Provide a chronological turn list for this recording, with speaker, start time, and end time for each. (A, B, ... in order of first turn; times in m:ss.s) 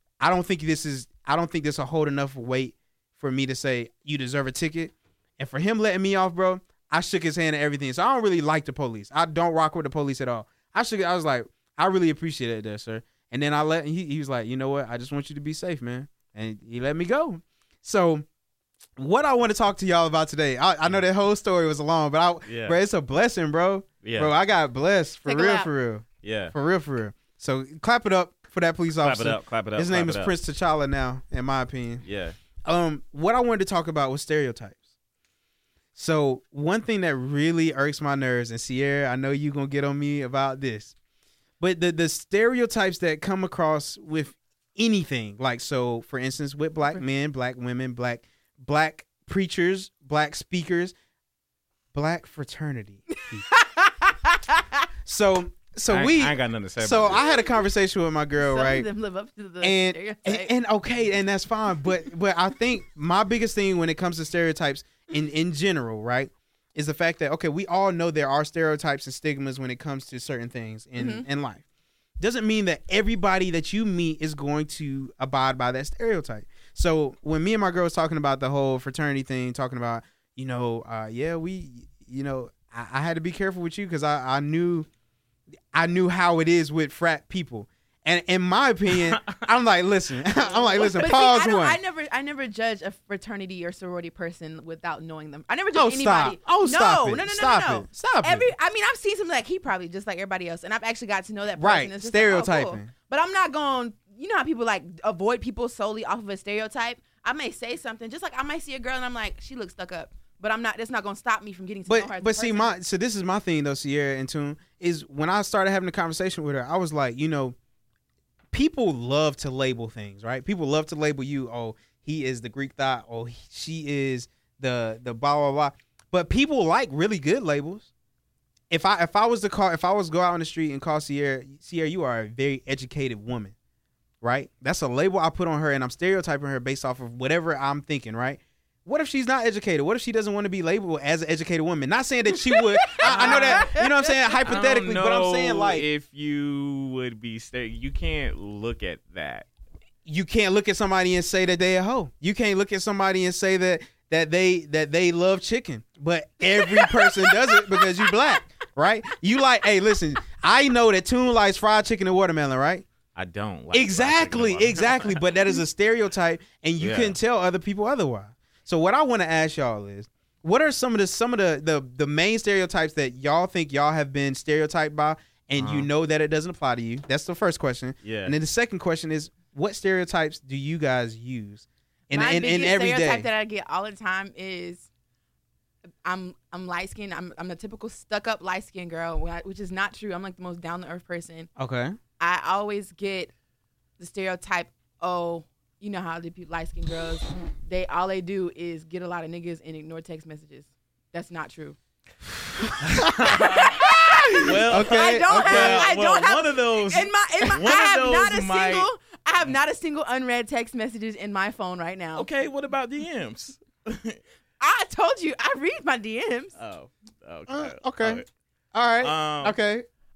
0:00.2-0:18.2 A
0:19.0-0:32.0 A
0:22.5-0:22.8 B
0:24.0-0:24.3 B
0:25.3-0:25.7 C
0:26.2-0:26.5 B
0:29.0-0:30.3 B
0:32.0-0:32.4 B
0:32.7-0:34.8 A
0:36.0-0:40.9 A
0:41.6-0:50.9 A
0:51.9-0:53.4 A
0:53.5-0:54.8 C
0:55.0-0:58.9 A
0:55.9-0:57.2 B
0:58.4-1:00.5 C
0:59.6-1:11.6 A
1:11.0-1:11.3 C
1:12.2-1:24.9 A
1:25.7-1:31.8 A
1:28.9-1:29.4 B
1:30.4-1:52.7 C
1:35.7-1:38.5 A
1:41.6-1:42.9 A
1:51.9-1:57.6 A
1:58.5-2:07.9 A
2:08.7-2:13.6 A
2:14.2-2:25.9 A
2:22.6-2:24.4 C
2:23.0-2:23.8 B
2:24.4-2:29.5 B
2:30.1-2:42.9 A
2:36.7-2:37.8 C
2:43.2-2:45.2 B
2:43.7-3:03.3 A
2:46.8-2:47.2 B
2:55.6-2:55.9 B
2:58.0-2:58.4 B
3:02.1-3:04.9 C
3:06.0-3:11.5 C
3:11.6-3:12.0 A
3:12.2-3:13.3 C
3:14.0-3:21.8 C
3:22.6-3:23.4 A
3:22.8-3:23.8 B
3:23.3-3:32.3 C
3:24.1-3:25.9 A
3:24.4-3:28.9 B
3:32.2-3:34.2 B
3:34.6-3:36.5 C
3:36.6-3:38.3 B
3:37.5-3:38.2 A
3:38.7-3:39.9 A
3:39.0-3:39.6 B